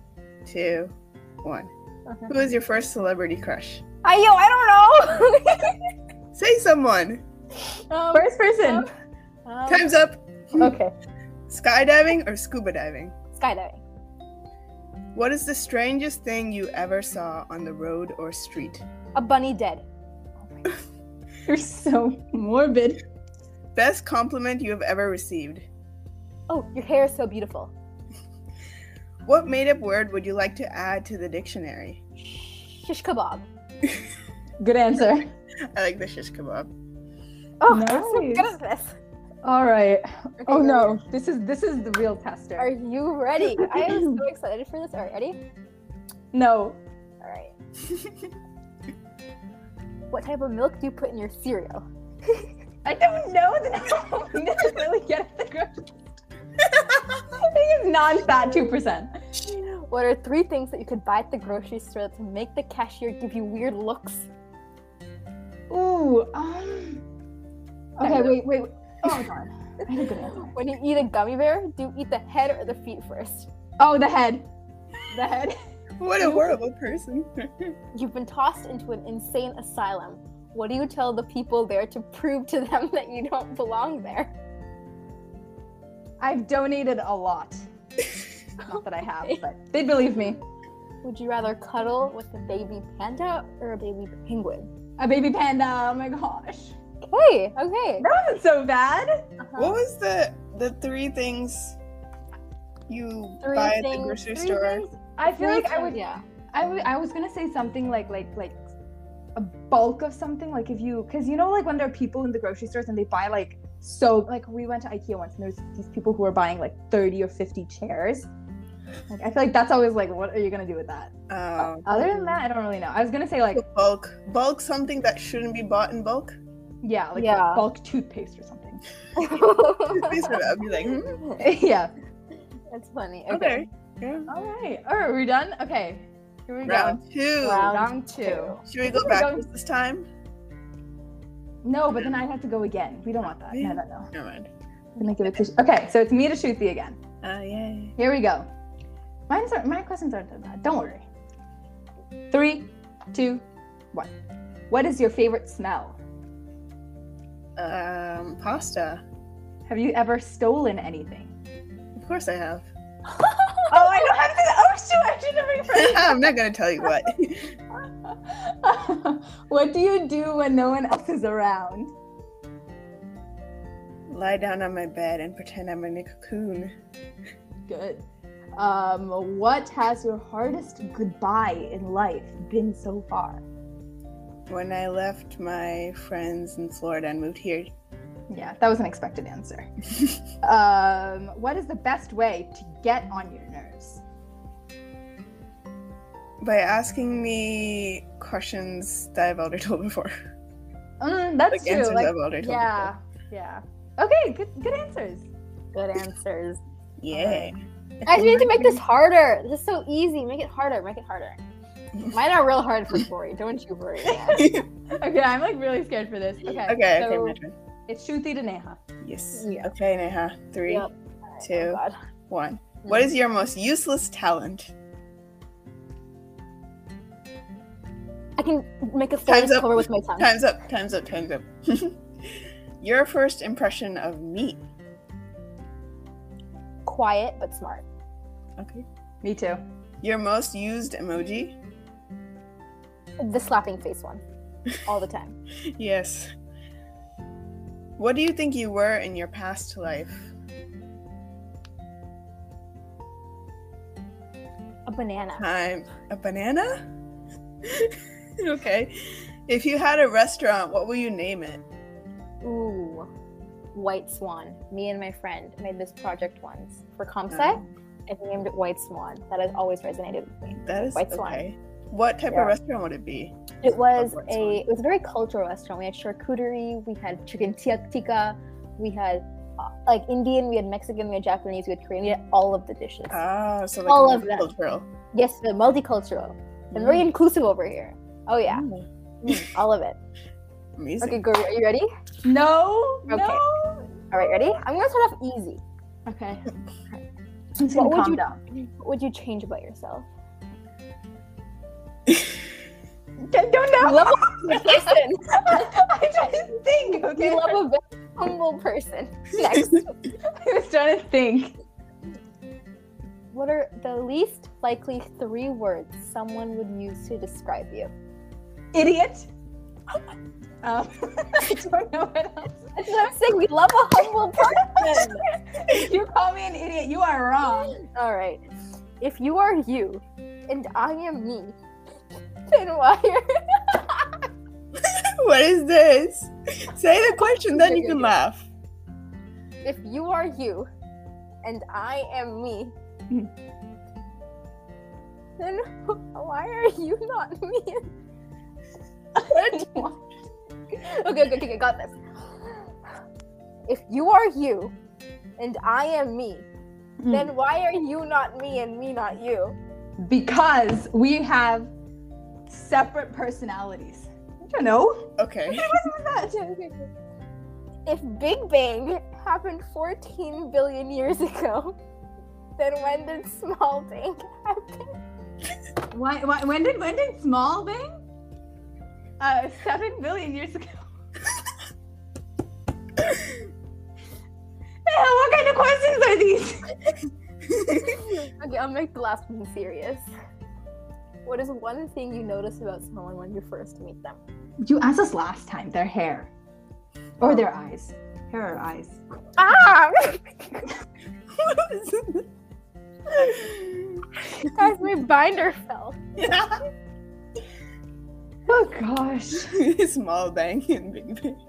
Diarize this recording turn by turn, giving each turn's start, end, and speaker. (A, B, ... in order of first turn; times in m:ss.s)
0:00.4-0:01.7 A
0:02.3-0:03.8 A
0:04.0-0:05.8 B
0:06.3-0:07.2 A
0:07.9-0:08.9 B
0:08.1-0:08.9 C
0:09.5-0:09.9 B
0:09.7-0:10.8 A
0:10.6-0:10.9 C
0:11.5-0:13.2 A
0:13.4-0:13.8 B
0:15.1-0:18.8 A
0:19.2-0:19.8 B
0:20.4-0:20.8 C
0:21.5-0:23.0 C
0:23.8-0:25.7 A
0:26.5-0:27.7 B
0:29.3-0:32.0 A
0:32.2-0:33.5 B
0:34.6-0:35.3 C
0:35.7-0:36.7 A
0:37.6-0:39.0 B
0:37.7-0:38.5 C
0:39.4-0:42.7 C
0:40.4-0:41.0 B
0:42.6-0:45.4 B
0:43.6-0:44.0 C
0:46.3-0:46.8 C
0:47.2-0:47.5 B
0:50.1-0:51.8 B
0:52.8-0:55.9 C
0:57.3-0:59.1 C
0:59.4-1:04.3 B
1:05.7-1:07.0 C
1:08.0-1:08.4 B
1:08.0-1:10.5 C
1:10.2-1:13.5 B
1:13.8-1:14.5 C
1:15.1-1:15.6 C
1:16.0-1:17.7 A
1:16.2-1:16.6 C
1:18.0-1:24.3 B
1:26.2-1:27.6 C
1:28.6-1:30.4 C
1:31.0-1:34.7 B
1:35.0-1:36.8 C
1:37.1-1:38.0 B
1:38.0-1:39.2 C
1:39.4-1:39.8 B
1:39.6-1:41.8 A
1:42.9-1:44.9 A
1:43.4-1:46.2 B
1:45.2-1:46.0 C
1:46.5-1:48.6 C
1:49.4-1:58.3 C
1:59.1-2:03.6 C
2:01.3-2:02.2 A
2:03.6-2:06.4 A
2:06.8-2:08.8 C
2:07.2-2:07.6 B
2:09.2-2:10.4 B
2:09.9-2:11.2 A
2:11.4-2:11.9 C
2:12.7-2:13.6 B
2:13.3-2:14.3 A
2:14.3-2:17.0 C
2:16.6-2:17.8 A
2:17.4-2:18.6 B
2:17.6-2:19.4 C
2:18.7-2:20.1 A
2:21.6-2:24.1 C
2:22.0-2:22.2 A
2:23.5-2:24.5 A
2:25.0-2:27.0 C
2:27.2-2:28.0 A
2:28.0-2:28.5 C
2:29.3-2:31.0 C
2:32.3-2:34.1 C
2:34.7-2:36.0 C
2:37.6-2:39.0 A
2:39.7-2:41.3 C
2:42.0-2:42.7 A
2:43.7-2:46.3 C
2:45.7-2:47.6 A
2:48.0-2:51.9 C
2:54.1-2:56.7 A
2:57.7-2:58.0 C
2:58.6-3:03.4 C
3:04.5-3:07.7 A
3:08.3-3:09.7 C
3:10.4-3:14.0 C
3:16.4-3:20.1 A
3:21.0-3:25.3 C
3:21.5-3:22.9 A
3:25.7-3:26.6 B
3:27.0-3:28.8 A
3:27.1-3:27.5 C
3:28.1-3:31.4 B
3:32.1-3:34.5 B
3:34.3-3:34.7 A
3:34.9-3:37.4 C
3:36.7-3:37.6 A
3:37.9-3:38.8 C
3:39.0-3:40.9 A
3:39.4-3:39.7 B
3:40.7-3:42.0 B
3:41.4-3:44.7 A
3:42.8-3:43.1 B
3:48.4-3:50.3 B
3:49.3-3:52.0 A
3:52.8-3:54.6 A
3:56.8-3:57.8 B
3:58.6-3:58.8 A
3:59.2-3:59.6 C
4:00.0-4:01.6 A
4:03.2-4:04.2 B
4:04.9-4:05.4 B
4:05.8-4:06.3 A
4:08.0-4:10.3 A
4:14.9-4:15.4 B
4:15.4-4:16.8 A
4:17.7-4:19.0 A
4:19.5-4:21.6 A
4:22.4-4:23.1 B
4:23.7-4:31.4 B
4:27.3-4:27.7 A
4:30.6-4:34.6 A
4:33.6-4:43.2 B
4:43.1-4:44.9 A
4:43.9-4:44.5 B
4:45.1-4:48.6 B
4:46.7-4:47.1 A
4:48.4-4:49.4 A
4:49.2-4:50.0 B
4:50.8-4:51.2 A
4:51.0-4:51.9 B
4:52.2-4:54.2 C
4:53.1-4:53.4 B
4:54.1-4:55.6 B
4:56.1-4:56.4 C
4:57.6-4:58.4 C
4:57.7-5:00.1 B
5:03.2-5:07.6 C
5:03.8-5:05.7 B
5:07.0-5:10.0 B
5:10.3-5:11.6 C
5:13.3-5:17.9 B
5:18.7-5:19.3 C
5:20.6-5:22.9 C
5:22.8-5:25.2 B
5:24.4-5:27.7 C
5:27.4-5:28.4 B
5:29.0-5:31.6 B
5:32.5-5:34.2 B
5:34.8-5:38.5 A
5:37.2-5:38.2 B
5:39.6-5:40.7 B
5:41.4-5:42.7 B
5:45.4-5:47.9 B
5:49.2-5:50.0 C
5:49.2-5:49.8 B
5:50.7-5:52.7 B
5:53.7-5:54.7 B
5:55.4-5:56.5 B
5:57.0-5:57.3 C
5:57.1-5:59.6 B
6:00.0-6:01.7 C
6:02.5-6:06.4 C
6:05.2-6:05.7 A
6:06.2-6:06.9 B
6:07.9-6:11.8 B
6:12.6-6:14.9 B
6:15.9-6:18.0 C
6:19.2-6:20.9 C
6:24.9-6:26.7 C
6:27.7-6:30.1 B
6:31.2-6:34.2 B
6:34.6-6:36.3 C
6:37.2-6:39.0 C
6:39.4-6:40.6 B
6:41.4-6:42.0 B
6:43.4-6:43.8 A
6:44.4-6:46.0 B
6:46.2-6:46.6 A
6:48.5-6:49.5 C
6:49.5-6:51.4 A